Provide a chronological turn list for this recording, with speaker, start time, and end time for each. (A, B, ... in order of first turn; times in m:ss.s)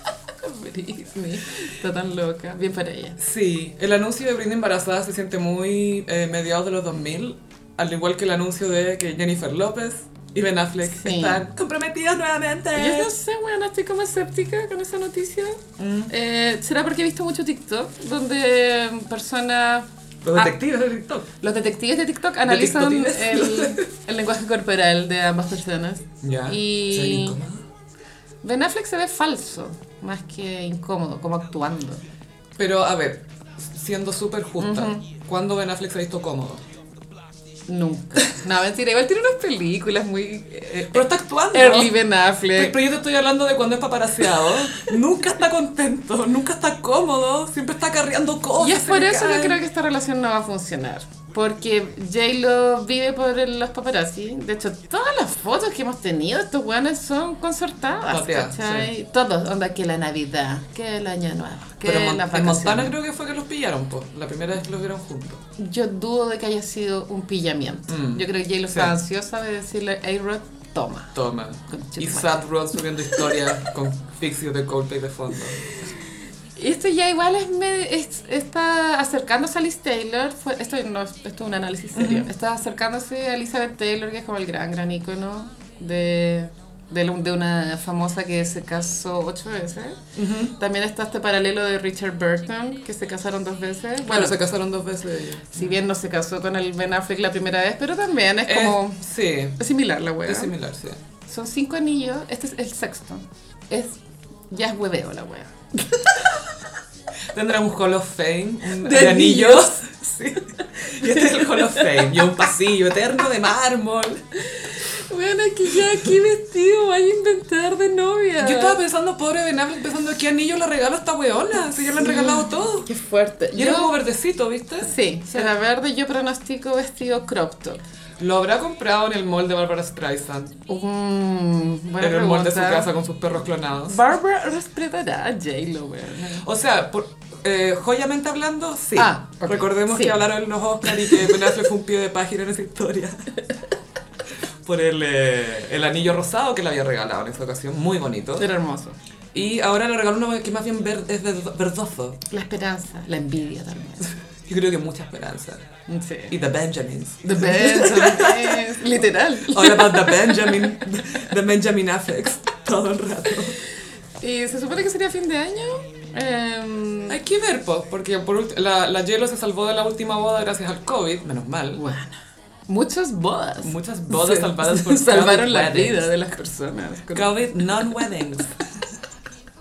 0:00.4-0:03.2 A
0:03.2-0:13.1 B
0:10.8-0:11.5 A
0:12.7-0:20.5 A
0:15.8-0:16.1 B
0:20.2-0:21.3 B
0:21.4-0:27.4 A
0:22.4-0:23.8 B
0:26.2-0:27.6 B
0:28.4-0:32.0 A
0:32.6-0:36.6 B
0:34.6-0:35.0 A
0:37.7-0:42.8 A
0:40.9-0:42.0 B
0:42.5-0:49.6 B
0:48.6-1:02.9 A
0:58.0-0:58.9 B
1:01.8-1:05.4 B
1:05.6-1:11.1 A
1:07.9-1:08.9 B
1:11.1-1:15.9 B
1:11.7-1:12.4 A
1:16.6-1:34.4 A
1:21.9-1:22.3 B
1:30.2-1:30.5 B
1:34.0-1:35.6 B
1:35.5-1:39.0 A
1:38.5-1:39.6 B
1:39.6-1:40.5 A
1:40.2-1:41.0 B
1:41.3-1:46.5 A
1:47.3-1:54.2 B
1:48.7-1:49.8 A
1:50.7-1:52.3 A
1:54.4-1:58.8 A
1:58.4-2:02.9 B
2:01.9-2:03.9 A
2:03.5-2:05.5 B
2:04.8-2:07.8 A
2:08.2-2:10.5 B
2:10.6-2:12.9 A
2:12.0-2:14.0 B
2:13.9-2:16.4 A
2:16.4-2:23.2 B
2:18.9-2:20.2 A
2:20.9-2:21.5 A
2:24.6-2:28.5 B
2:28.4-2:29.0 A
2:29.3-2:32.2 B
2:32.3-2:34.2 A
2:34.5-2:35.6 B
2:35.9-2:36.3 A
2:36.3-2:38.7 B
2:37.2-2:40.7 A
2:39.5-2:43.6 B
2:44.2-2:47.2 A
2:47.1-2:51.8 B
2:51.7-2:52.2 A
2:52.7-2:58.0 A
2:53.6-2:56.0 B
2:57.1-2:58.6 B